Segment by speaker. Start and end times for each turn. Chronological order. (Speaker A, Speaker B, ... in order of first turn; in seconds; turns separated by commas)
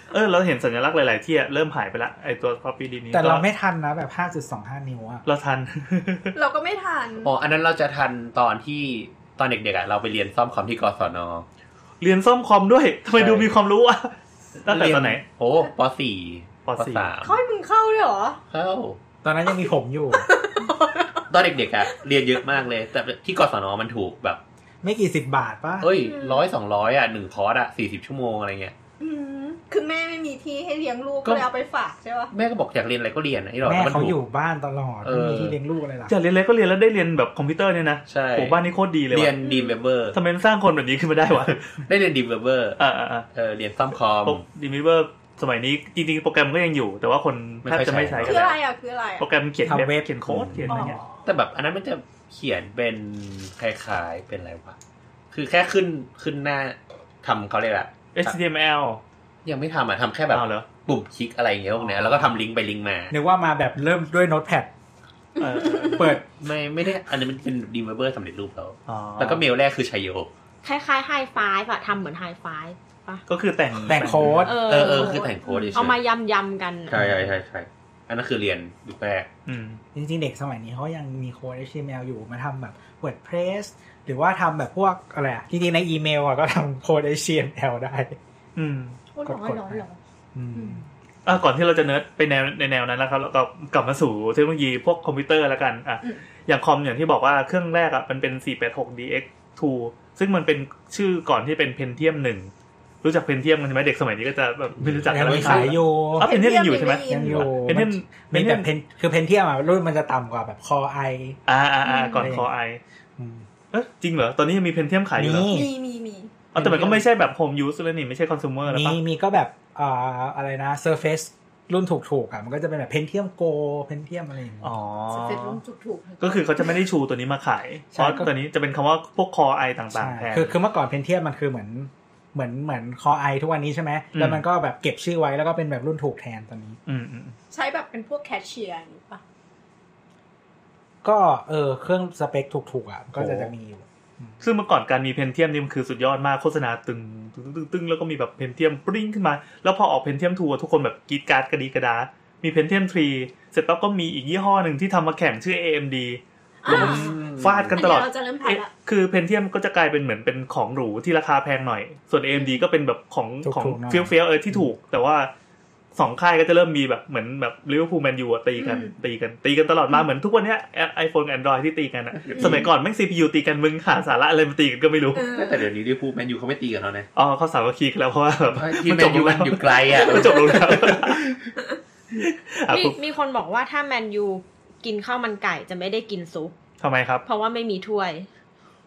Speaker A: 0.1-3.5, Speaker B: 3.1-5.2, Speaker A: 5.3-6.3, Speaker C: 6.3-7.3, Speaker D: 7.2-11.5, Speaker A: 12.0-15.2, Speaker D: 13.2-13.5, Speaker D: 14.7-17.4, Speaker A: 16.7-17.1, Speaker C: 17.2-18.4, Speaker D: 18.5-19.0, Speaker B: 19.2-20.3, Speaker C: 20.2-21.3, Speaker D: 21.3-24.4, Speaker C: 21.8-22.1, Speaker B: 24.8-25.9, Speaker D: 25.8-28.7, Speaker C: 25.9-26.5, Speaker C: 29.0-32.3, Speaker D: 32.3-34.2, Speaker B: 33.6-36.1, Speaker D: 35.0-35.6, Speaker A: 36.1-39.4, Speaker D: 38.1-40.2, Speaker C: 39.4-39.8, Speaker A: 40.1-41.8, Speaker D: 41.9-42.8, Speaker A: 42.8-43.3, Speaker D: 43.3-44.4, Speaker A: 44.2-48.6, Speaker D: 47.6-48.4, Speaker C: 48.2-49.3, Speaker A: 49.2-51.0, Speaker B: 49.7-50.1, Speaker D: 50.3-54.8, Speaker C: 50.7-51.0, Speaker D: 55.3-58.4, Speaker A: 58.1-59.0, Speaker D: 59.5-63.1, Speaker A: 60.3-60.7, Speaker B: 63.1-64.7, Speaker C: 65.4-66.2, Speaker A: 65.4-66.2, Speaker B: 65.9-66.2, Speaker D: 66.3-70.3, Speaker A: 68.9-69.4, Speaker E: 70.6-73.2, Speaker A: 73.3-74.4, Speaker B: 73.9-74.6, Speaker D: 74.2-76.0, Speaker E: 74.4-77.0, Speaker C: 74.8-75.8, Speaker D: 76.9-79.3, Speaker A: 79.5-79.8, Speaker B: 79.9-88.2, Speaker A: 88.6-89.0, Speaker C: 89.1-90.0, Speaker B: 89.2-89.8, Speaker B: 90.3-90.8, Speaker C: 90.5-90.8, Speaker A: 91.2-102.5, Speaker A: 103.0-108.7, Speaker D: 104.8-105.8, Speaker B: 105.1-106.3, Speaker C: 106.2-107.4, Speaker B: 107.1-111.4, Speaker A: 111.5-112.8, Speaker C: 111.9-112.3, Speaker B: 112.2-112.5, Speaker B: 113.2-113.5, Speaker A: 113.7-115.5, Speaker B: 115.2-115.7, Speaker C: 115.5-116.3, Speaker A: 116.5-119.0, Speaker B: 116.5-117.0, Speaker B: 118.7-124.7, Speaker A: 124.6-125.6, Speaker C: 125.1-126.8, Speaker A: 126.2-130.6, Speaker B: 127.9-128.3, Speaker B: 129.9-136.8, Speaker A: 134.1-134.4, Speaker A: 136.9-137.4, Speaker C: 137.5-139.2, Speaker B: 141.0-144.4, Speaker A: 143.2-143.5, Speaker A: 144.4-165.3, Speaker C: 156.6-157.2, Speaker D: 156.7-157.8, Speaker C: 157.8-158.7, Speaker B: 163.4-164.6, Speaker A: 166.0-175.3, Speaker C: 168.6-168.9, Speaker D: 172.2-172.7, Speaker C: 175.2-175.7, Speaker D: 175.2-177.1, Speaker A: 177.2-181.2, Speaker D: 178.6-181.5, Speaker C: 180.1-180.3, Speaker A: 182.1-183.0, Speaker E: 182.7-186.6, Speaker A: 186.8-187.2, Speaker E: 187.3-188.3